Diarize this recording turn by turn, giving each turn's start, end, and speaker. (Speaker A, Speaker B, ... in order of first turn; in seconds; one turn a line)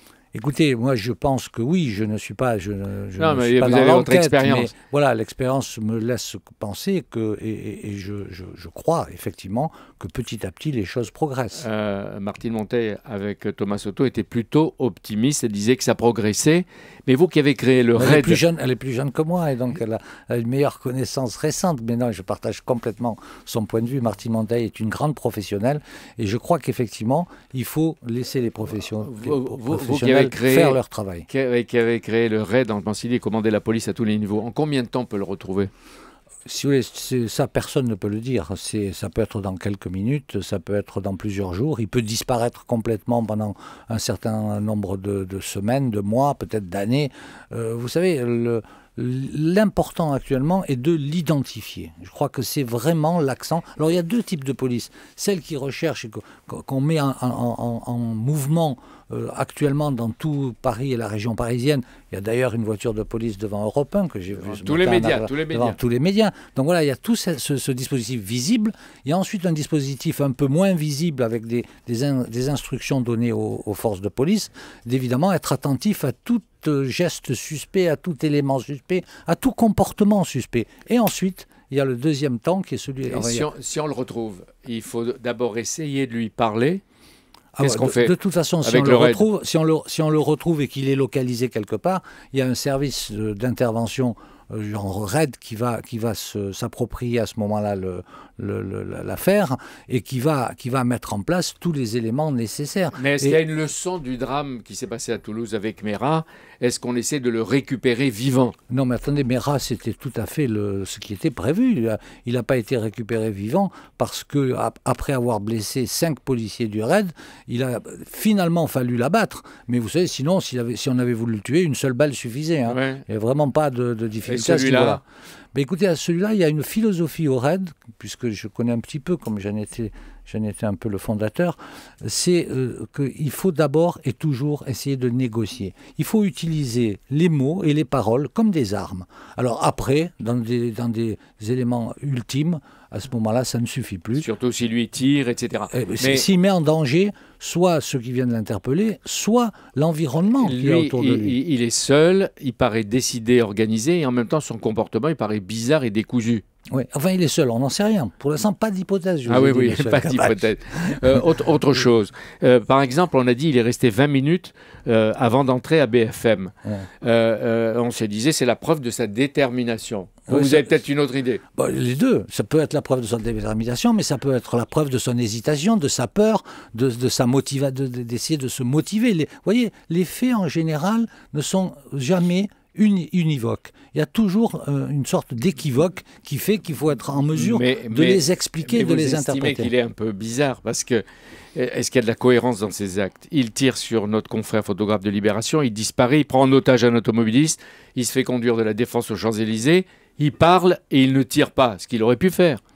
Speaker A: 0.3-11.7
Speaker B: 3.2-4.7
Speaker B: 11.5-18.4
Speaker A: 17.9-31.2
Speaker B: 29.0-35.7
Speaker A: 36.5-83.5
Speaker B: 64.3-65.8
Speaker B: 83.1-86.8
Speaker A: 87.5-103.4
Speaker B: 87.6-89.2
Speaker B: 102.9-108.5
Speaker A: 108.7-125.0
Speaker B: 122.7-123.0
Speaker B: 124.2-125.0
Speaker A: 125.5-144.3
Speaker B: 144.2-146.3
Speaker A: 145.7-151.3
Speaker B: 150.4-156.4
Speaker A: 156.7-161.2
Speaker B: 159.2-171.4
Speaker A: 170.3-170.8
Speaker A: 171.6-189.7
Speaker B: 187.3-191.0
Speaker B: 191.5-202.6